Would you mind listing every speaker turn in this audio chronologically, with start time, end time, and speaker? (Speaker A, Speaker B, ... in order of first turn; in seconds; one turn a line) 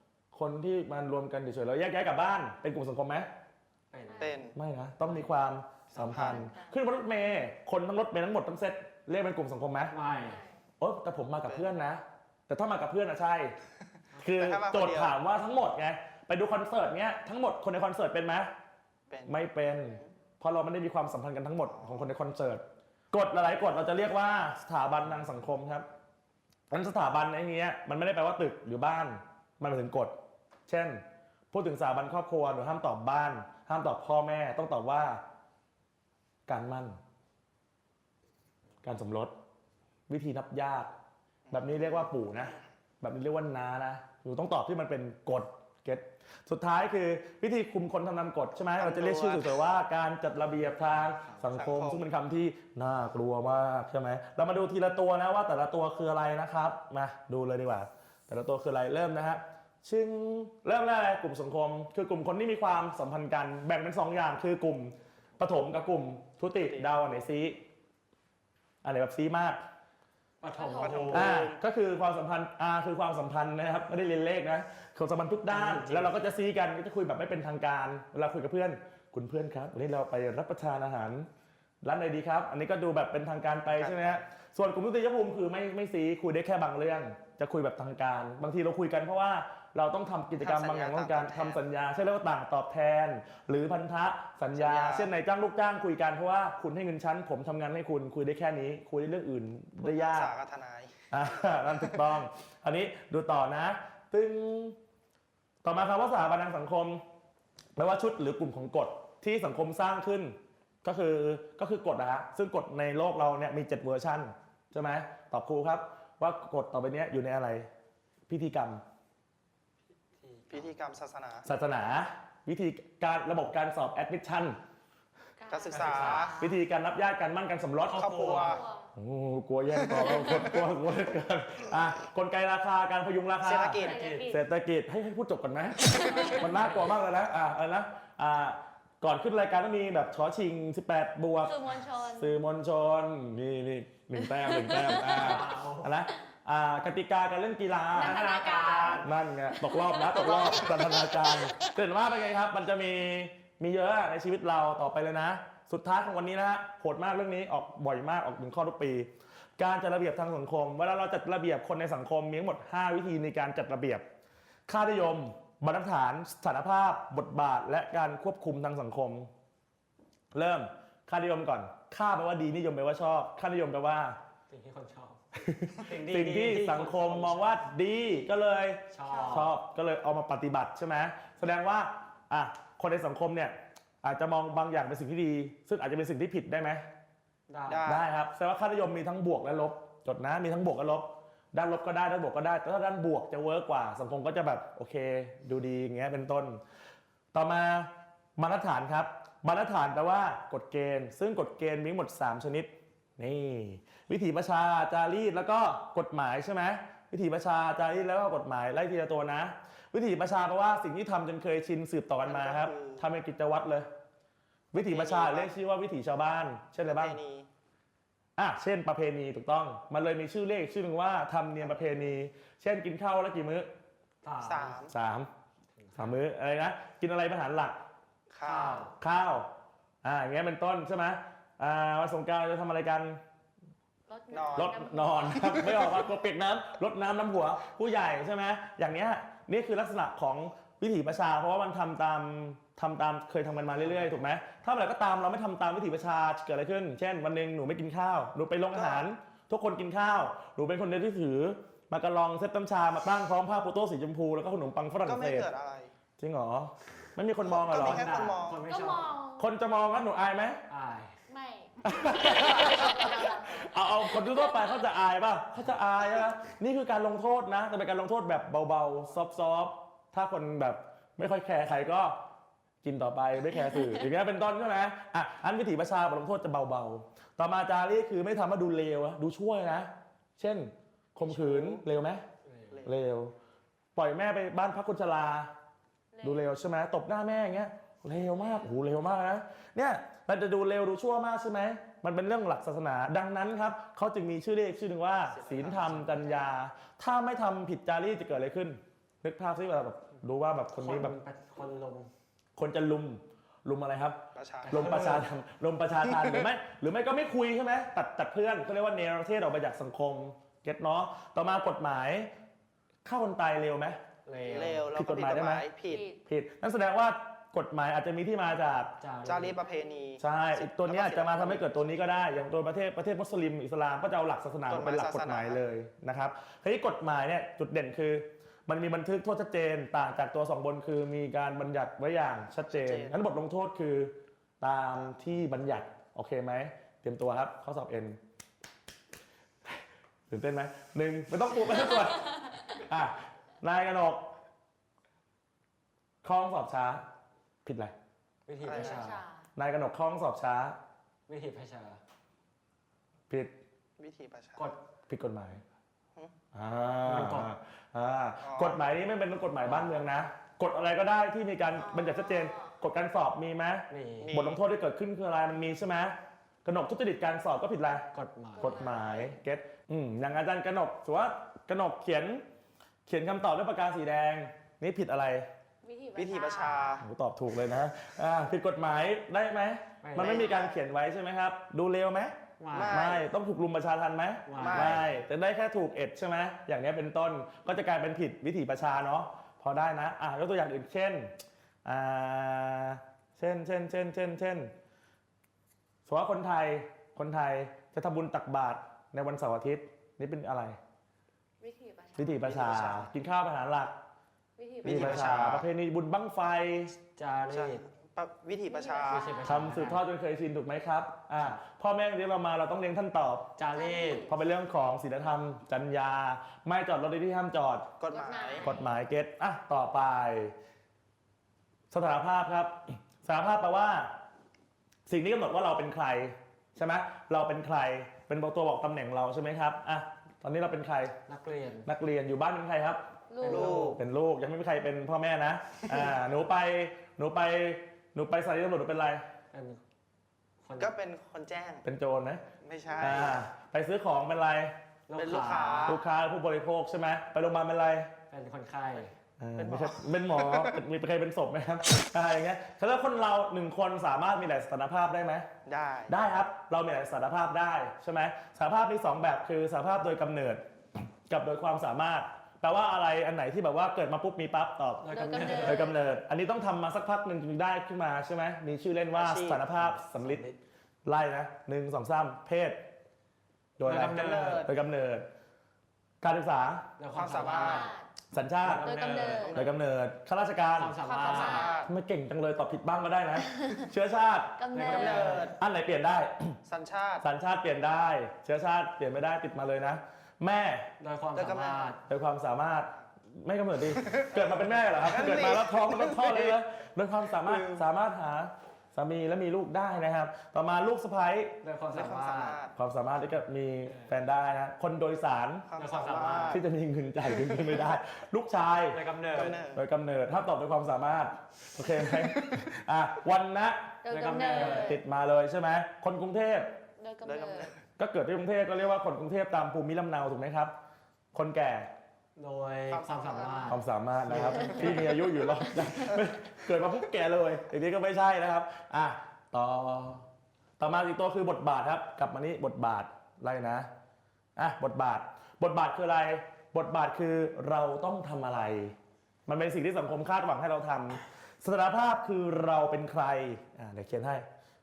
Speaker A: 0.3-3.3
Speaker B: 3.9-4.4
Speaker C: 4.0-4.4
Speaker D: 4.2-4.6
Speaker A: 4.5-9.9
Speaker B: 5.0-6.1
Speaker D: 6.0-6.5
Speaker C: 6.1-6.8
Speaker B: 9.9-10.4
Speaker C: 10.2-10.6
Speaker A: 10.8-13.5
Speaker D: 11.4-11.7
Speaker A: 14.2-18.5
Speaker D: 14.3-15.2
Speaker D: 19.1-20.0
Speaker A: 19.3-25.9
Speaker D: 21.6-22.1
Speaker A: 26.7-30.1
Speaker A: 30.7-35.2
Speaker A: 36.5-37.0
Speaker A: 38.8-39.3
Speaker A: 40.1-40.9
Speaker D: 41.5-42.1
Speaker A: 41.5-67.6
Speaker D: 48.8-49.6
Speaker B: 50.6-51.5
Speaker D: 51.5-52.0
Speaker D: 66.6-66.9
Speaker A: 68.8-69.6
Speaker B: 70.4-71.3
Speaker C: 70.5-71.2
Speaker D: 70.8-71.6
Speaker A: 71.1-81.3
Speaker B: 75.5-76.1
Speaker A: 81.8-100.3
Speaker D: 83.7-84.2
Speaker D: 90.4-91.6
Speaker D: 94.5-95.1
Speaker D: 99.8-101.0
Speaker A: 101.1-104.8
Speaker A: 105.6-107.0
Speaker A: 107.8-117.7
Speaker A: 118.3-118.8
Speaker B: 120.2-120.7
Speaker D: 120.5-121.5
Speaker A: 121.5-124.6
Speaker C: 125.4-126.6
Speaker D: 125.5-126.4
Speaker B: 125.7-126.4
Speaker A: 126.4-128.1
Speaker B: 127.8-128.6
Speaker D: 127.9-128.6
Speaker C: 128.3-128.9
Speaker A: 129.0-141.6
Speaker D: 133.4-134.0
Speaker C: 133.7-134.4
Speaker B: 133.8-134.3
Speaker C: 135.9-136.5
Speaker B: 136.4-137.0
Speaker C: 141.4-142.3
Speaker A: 142.1-148.2
Speaker B: 144.9-145.9
Speaker C: 147.9-151.7
Speaker B: 148.0-149.1
Speaker A: 148.9-164.0
Speaker A: 164.7-169.3
Speaker A: 170.3-174.2
Speaker B: 174.5-175.2
Speaker A: 175.4-186.8
Speaker B: 175.8-177.6
Speaker B: 178.9-179.5
Speaker C: 179.1-179.5
Speaker B: 187.5-187.9
Speaker D: 187.7-188.1
Speaker A: 187.8-196.6
Speaker A: 197.3-213.9
Speaker D: 212.2-213.1
Speaker A: 214.7-217.2
Speaker D: 214.8-215.6
Speaker D: 216.8-217.5
Speaker A: 218.4-223.7
Speaker D: 221.6-222.0
Speaker B: 224.2-224.8
Speaker D: 224.4-224.9
Speaker A: 224.9-225.3
Speaker B: 225.8-226.2
Speaker A: 225.9-227.8
Speaker D: 228.3-228.9
Speaker B: 228.4-228.9
Speaker A: 228.8-229.5
Speaker A: 230.0-233.2
Speaker C: 234.1-236.0
Speaker D: 234.3-235.8
Speaker A: 234.6-255.5
Speaker B: 243.8-244.2
Speaker D: 248.7-249.1
Speaker D: 255.0-255.9
Speaker A: 256.2-258.1
Speaker D: 257.4-258.7
Speaker B: 257.7-259.1
Speaker C: 258.6-259.5
Speaker A: 259.4-260.6
Speaker B: 260.7-261.2
Speaker C: 261.3-263.7
Speaker A: 261.8-272.2
Speaker A: 272.8-282.2
Speaker D: 281.2-281.8
Speaker B: 282.5-282.8
Speaker D: 282.7-283.0
Speaker A: 282.8-283.3
Speaker A: 284.0-285.5
Speaker C: 286.1-286.5
Speaker A: 286.2-301.2
Speaker D: 295.3-296.1
Speaker B: 295.8-296.2
Speaker B: 300.8-302.1
Speaker A: 302.6-312.3
Speaker D: 304.3-305.1
Speaker B: 304.6-305.3
Speaker A: 313.1-314.0
Speaker B: 314.3-314.9
Speaker D: 314.4-316.1
Speaker A: 314.7-315.7
Speaker C: 315.9-316.2
Speaker A: 316.2-318.9
Speaker B: 319.0-319.6
Speaker D: 319.2-321.9
Speaker A: 320.2-338.2
Speaker D: 324.7-325.6
Speaker D: 332.7-333.2
Speaker A: 340.3-344.3
Speaker A: 346.2-347.0
Speaker A: 347.6-347.9
Speaker B: 348.5-349.2
Speaker D: 348.6-349.1
Speaker C: 348.6-349.4
Speaker A: 349.6-350.8
Speaker B: 351.3-352.0
Speaker A: 353.3-353.6
Speaker D: 354.0-354.7
Speaker A: 355.1-355.6
Speaker A: 356.5-368.1
Speaker B: 357.1-357.5
Speaker D: 358.4-358.8
Speaker B: 359.6-360.0
Speaker C: 361.8-362.7
Speaker B: 363.9-364.4
Speaker D: 364.2-364.6
Speaker B: 368.1-368.9
Speaker C: 368.6-369.3
Speaker A: 368.6-372.4
Speaker A: 373.1-375.5
Speaker C: 375.8-377.0
Speaker D: 376.1-377.1
Speaker A: 377.0-391.3
Speaker B: 380.0-380.5
Speaker D: 380.2-380.8
Speaker B: 382.6-383.1
Speaker D: 382.7-383.3
Speaker B: 384.5-385.0
Speaker D: 384.6-385.1
Speaker A: 391.9-394.7
Speaker A: 396.1-400.8
Speaker C: 401.6-402.5
Speaker A: 402.2-403.9
Speaker D: 402.4-403.1
Speaker C: 404.6-405.2
Speaker D: 404.8-405.7
Speaker A: 404.8-407.0
Speaker B: 407.2-407.8
Speaker D: 407.5-409.4
Speaker C: 408.7-409.7
Speaker B: 409.1-410.0
Speaker A: 409.4-413.5
Speaker B: 413.6-414.3
Speaker C: 413.7-414.4
Speaker A: 414.2-417.9
Speaker D: 418.0-418.8
Speaker C: 418.1-418.9
Speaker A: 418.6-420.5
Speaker A: 421.9-424.1
Speaker A: 425.1-431.2
Speaker B: 431.3-431.9
Speaker A: 431.9-433.0
Speaker C: 433.3-433.7
Speaker B: 433.4-434.0
Speaker D: 433.4-434.0
Speaker A: 433.7-439.2
Speaker B: 439.5-439.8
Speaker B: 440.6-440.9
Speaker D: 440.8-441.9
Speaker A: 441.8-442.4
Speaker D: 442.6-443.4
Speaker A: 443.0-444.7
Speaker B: 445.1-446.0
Speaker D: 445.1-446.0
Speaker A: 445.7-448.1
Speaker B: 448.3-449.1
Speaker A: 449.4-455.5
Speaker D: 449.6-450.8
Speaker D: 455.7-456.1
Speaker A: 456.1-460.6
Speaker A: 461.3-470.4
Speaker B: 465.0-465.9
Speaker C: 465.1-465.9
Speaker D: 469.1-469.6
Speaker B: 469.2-470.6
Speaker A: 471.1-472.8
Speaker A: 473.8-475.3
Speaker B: 473.8-474.7
Speaker D: 474.0-474.7
Speaker A: 476.2-476.9
Speaker B: 477.0-477.9
Speaker D: 477.1-477.9
Speaker C: 477.3-478.1
Speaker A: 478.3-478.9
Speaker B: 478.6-479.8
Speaker C: 478.8-479.6
Speaker D: 479.3-479.8
Speaker A: 479.5-481.0
Speaker B: 480.8-481.7
Speaker C: 481.0-481.9
Speaker D: 481.1-481.9
Speaker A: 481.8-484.6
Speaker C: 484.6-485.2
Speaker B: 484.7-485.5
Speaker D: 484.9-485.6
Speaker A: 485.2-486.6
Speaker D: 486.6-487.3
Speaker A: 487.2-490.9
Speaker B: 491.0-492.0
Speaker D: 491.4-492.0
Speaker A: 492.1-501.6
Speaker D: 494.0-496.6
Speaker D: 497.4-497.8
Speaker B: 501.6-502.6
Speaker D: 501.9-502.8
Speaker A: 502.8-505.7
Speaker D: 505.7-506.6
Speaker B: 505.8-506.6
Speaker A: 506.4-514.0
Speaker B: 508.9-509.6
Speaker D: 509.3-509.8
Speaker C: 514.0-515.0
Speaker B: 514.1-515.0
Speaker A: 514.5-516.8
Speaker C: 517.0-517.7
Speaker D: 517.2-517.7
Speaker A: 518.0-520.7
Speaker A: 521.3-521.9
Speaker B: 522.4-525.0
Speaker D: 522.9-523.8
Speaker A: 523.7-530.2
Speaker A: 530.8-533.9
Speaker A: 534.6-539.0
Speaker A: 539.5-544.5